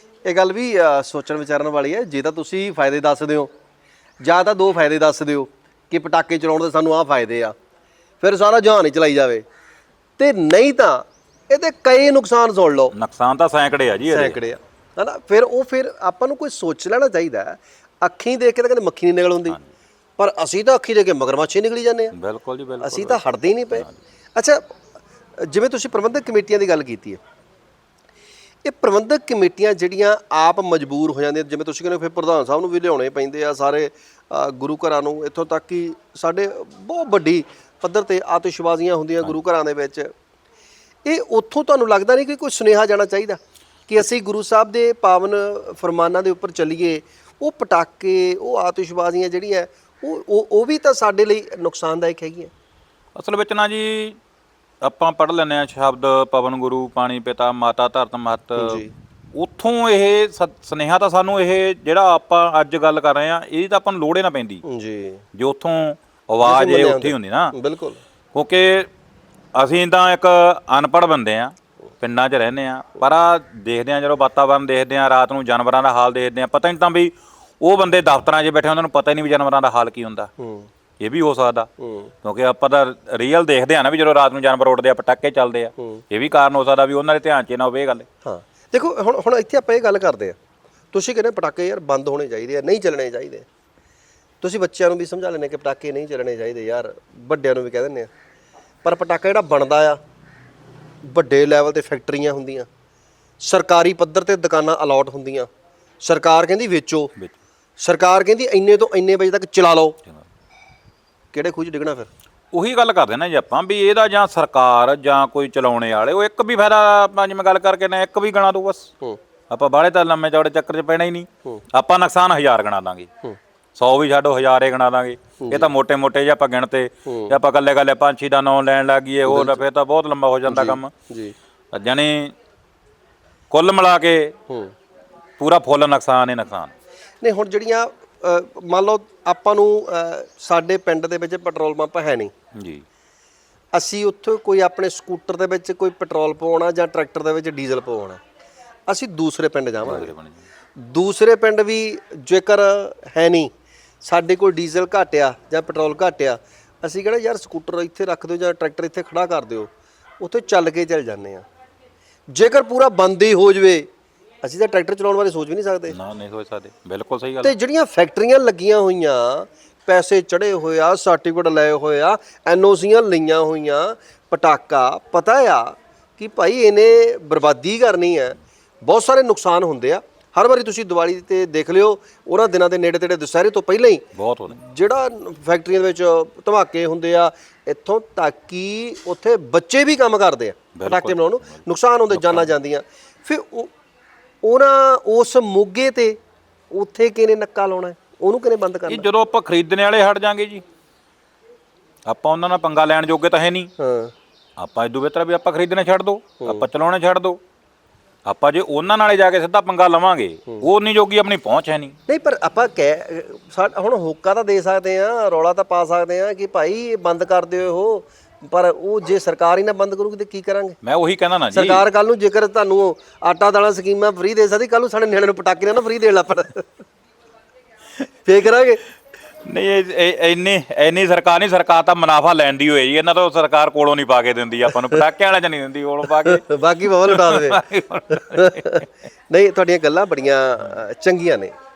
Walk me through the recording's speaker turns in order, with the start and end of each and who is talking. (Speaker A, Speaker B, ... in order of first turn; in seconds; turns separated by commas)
Speaker A: 0.2-3.5, Speaker A: 4.2-7.5, Speaker A: 8.2-9.4, Speaker A: 10.2-12.9, Speaker B: 12.9-14.4, Speaker A: 14.1-19.6, Speaker A: 20.2-22.1, Speaker B: 22.1-23.2, Speaker A: 22.8-24.6, Speaker A: 25.4-27.2, Speaker A: 28.6-40.1, Speaker A: 41.0-52.5, Speaker B: 53.1-54.2, Speaker B: 54.8-58.8, Speaker A: 58.6-58.9, Speaker B: 59.3-64.6, Speaker A: 64.6-65.2, Speaker B: 65.3-67.5, Speaker A: 66.4-68.0, Speaker B: 68.3-68.9, Speaker B: 69.5-80.3, Speaker A: 80.4-80.7, Speaker B: 81.0-81.7, Speaker A: 81.8-82.1, Speaker B: 82.2-88.1, Speaker A: 88.2-90.4, Speaker A: 90.9-93.5, Speaker A: 94.4-98.1, Speaker A: 98.8-100.0, Speaker A: 101.0-102.7, Speaker A: 103.4-105.5, Speaker A: 106.0-107.1, Speaker A: 107.8-110.0, Speaker A: 111.3-112.1, Speaker B: 112.5-118.9, Speaker B: 119.5-123.1, Speaker B: 123.8-130.9, Speaker A: 125.4-125.7, Speaker A: 127.0-127.4, Speaker A: 129.2-129.6, Speaker A: 130.5-131.3, Speaker B: 131.7-132.3, Speaker B: 133.5-134.3, Speaker A: 134.5-134.7, Speaker B: 135.4-136.7, Speaker A: 137.2-142.3, Speaker B: 142.6-142.8, Speaker A: 143.7-148.2, Speaker A: 148.9-150.1, Speaker B: 149.8-150.4, Speaker A: 150.8-153.5, Speaker A: 154.0-161.4, Speaker A: 162.3-163.9, Speaker A: 164.4-165.9, Speaker B: 165.9-167.5, Speaker A: 167.4-193.7, Speaker B: 184.1-184.6, Speaker B: 190.7-192.5, Speaker A: 194.4-196.2, Speaker A: 196.7-199.1, Speaker B: 198.9-200.6, Speaker B: 202.1-203.7, Speaker A: 203.8-204.1, Speaker B: 204.6-207.4, Speaker A: 206.4-206.7, Speaker B: 208.2-211.9, Speaker A: 212.1-220.8, Speaker B: 220.8-221.8, Speaker A: 221.5-226.8, Speaker A: 228.2-228.8, Speaker B: 229.4-238.9, Speaker A: 236.2-241.5